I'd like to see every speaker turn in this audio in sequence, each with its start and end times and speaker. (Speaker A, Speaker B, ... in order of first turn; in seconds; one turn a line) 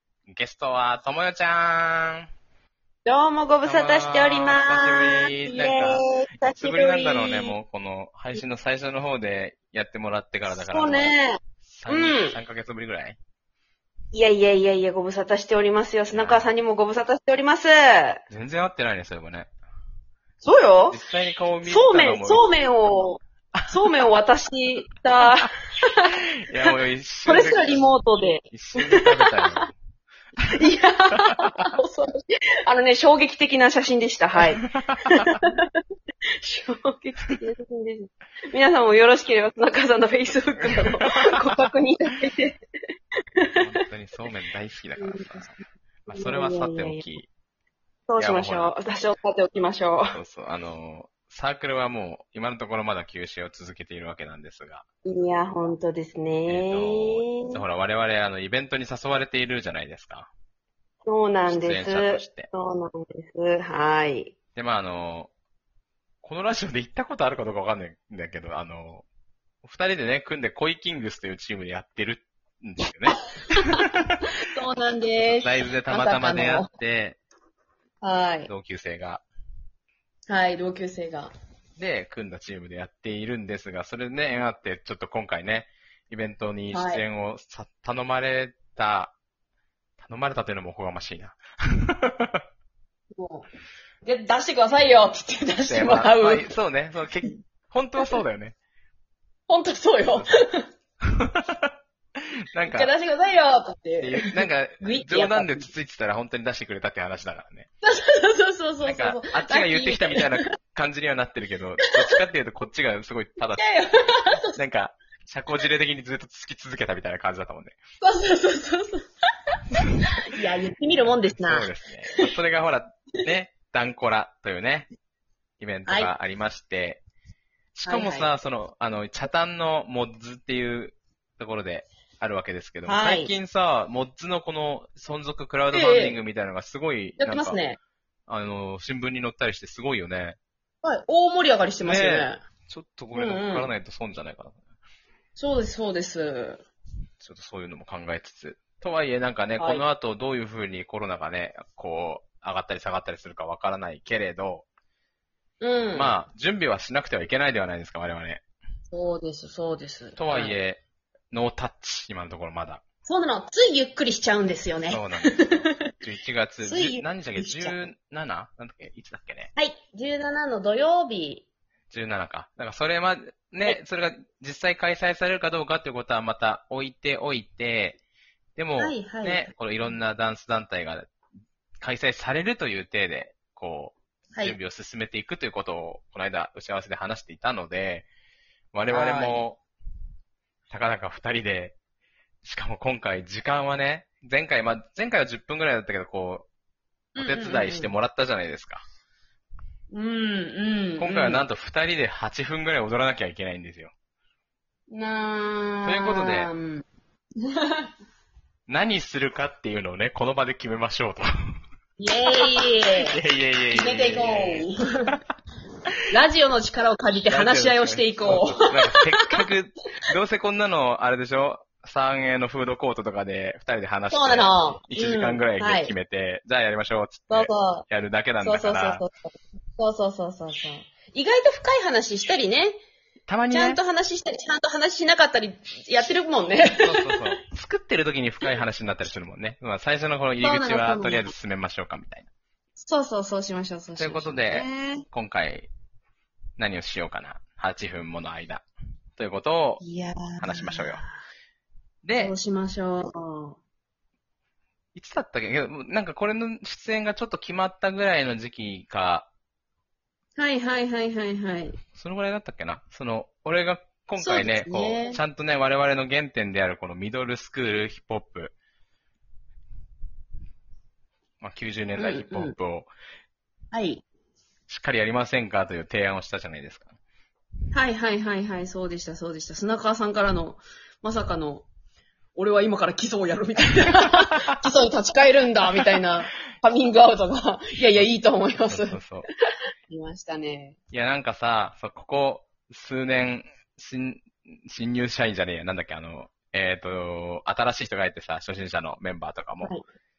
Speaker A: 0.3-2.3
Speaker B: 3.0-7.5
Speaker A: 3.6-13.2
Speaker B: 10.5-12.4
Speaker B: 14.1-18.2
Speaker A: 16.1-16.5
Speaker A: 18.3-19.5
Speaker B: 20.4-21.0
Speaker A: 20.9-22.5
Speaker B: 21.6-26.1
Speaker A: 26.5-29.7
Speaker B: 27.2-29.7
Speaker B: 30.5-35.8
Speaker A: 34.6-35.3
Speaker B: 36.4-42.6
Speaker A: 43.5-47.3
Speaker B: 45.0-45.4
Speaker B: 46.1-47.1
Speaker B: 48.1-50.2
Speaker A: 48.2-48.8
Speaker A: 50.1-54.8
Speaker B: 55.0-57.6
Speaker A: 56.5-60.3
Speaker B: 61.0-64.3
Speaker A: 61.5-62.5
Speaker A: 64.5-65.3
Speaker A: 66.2-69.0
Speaker A: 69.6-74.0
Speaker B: 74.3-76.7
Speaker A: 75.2-77.2
Speaker B: 78.0-78.5
Speaker A: 78.5-79.2
Speaker B: 80.3-81.3
Speaker A: 81.8-89.2
Speaker B: 86.7-87.0
Speaker A: 90.0-92.4
Speaker B: 93.2-93.5
Speaker B: 94.0-96.5
Speaker A: 95.7-98.6
Speaker B: 99.5-100.7
Speaker A: 100.1-100.4
Speaker A: 101.1-101.7
Speaker A: 102.5-102.9
Speaker B: 102.7-105.7
Speaker A: 104.0-107.7
Speaker B: 107.8-110.5
Speaker A: 108.8-113.7
Speaker B: 111.8-112.2
Speaker B: 113.5-114.6
Speaker A: 114.5-117.8
Speaker B: 118.0-119.1
Speaker B: 120.2-122.3
Speaker A: 121.3-124.9
Speaker A: 125.6-127.0
Speaker B: 125.9-126.1
Speaker A: 127.8-137.6
Speaker B: 127.9-128.3
Speaker B: 132.8-133.3
Speaker B: 135.7-136.2
Speaker B: 137.2-137.8
Speaker A: 138.3-140.4
Speaker B: 140.8-142.4
Speaker A: 141.8-144.6
Speaker B: 143.1-143.7
Speaker B: 145.4-146.6
Speaker A: 147.2-154.7
Speaker B: 149.6-149.8
Speaker B: 155.6-156.2
Speaker A: 155.9-158.4
Speaker B: 158.9-160.5
Speaker A: 160.2-160.8
Speaker A: 161.3-162.8
Speaker B: 163.1-165.9
Speaker A: 164.9-169.5
Speaker B: 166.6-167.8
Speaker B: 169.6-171.4
Speaker A: 171.9-178.0
Speaker A: 178.6-181.1
Speaker B: 178.8-179.5
Speaker A: 181.8-188.1
Speaker A: 188.7-189.6
Speaker B: 188.9-189.4
Speaker A: 190.7-191.8
Speaker A: 192.4-196.5
Speaker B: 197.2-197.9
Speaker A: 197.2-198.8
Speaker B: 199.9-201.4
Speaker A: 201.0-203.9
Speaker B: 204.9-206.8
Speaker A: 205.8-206.5
Speaker B: 207.4-207.9
Speaker A: 208.7-211.3
Speaker B: 212.0-213.2
Speaker A: 212.4-214.7
Speaker B: 213.7-215.1
Speaker B: 216.1-219.4
Speaker A: 217.3-229.0
Speaker B: 224.1-225.9
Speaker B: 227.3-227.9
Speaker B: 228.4-232.8
Speaker A: 233.3-233.8
Speaker B: 233.5-237.2
Speaker A: 236.8-242.3
Speaker B: 240.4-241.3
Speaker B: 242.8-245.1
Speaker A: 244.0-245.7
Speaker A: 246.6-248.7
Speaker A: 249.2-249.8
Speaker B: 249.8-251.2
Speaker A: 250.4-251.0
Speaker A: 252.0-252.4
Speaker B: 252.2-253.6
Speaker A: 254.9-259.3
Speaker B: 260.4-261.8
Speaker A: 261.9-268.5
Speaker B: 264.2-265.2
Speaker A: 271.4-272.9
Speaker B: 272.0-272.5
Speaker B: 273.7-274.0
Speaker A: 274.7-276.9
Speaker B: 277.7-281.6
Speaker B: 282.4-289.3
Speaker A: 288.7-289.3
Speaker B: 289.9-290.8
Speaker A: 290.9-299.8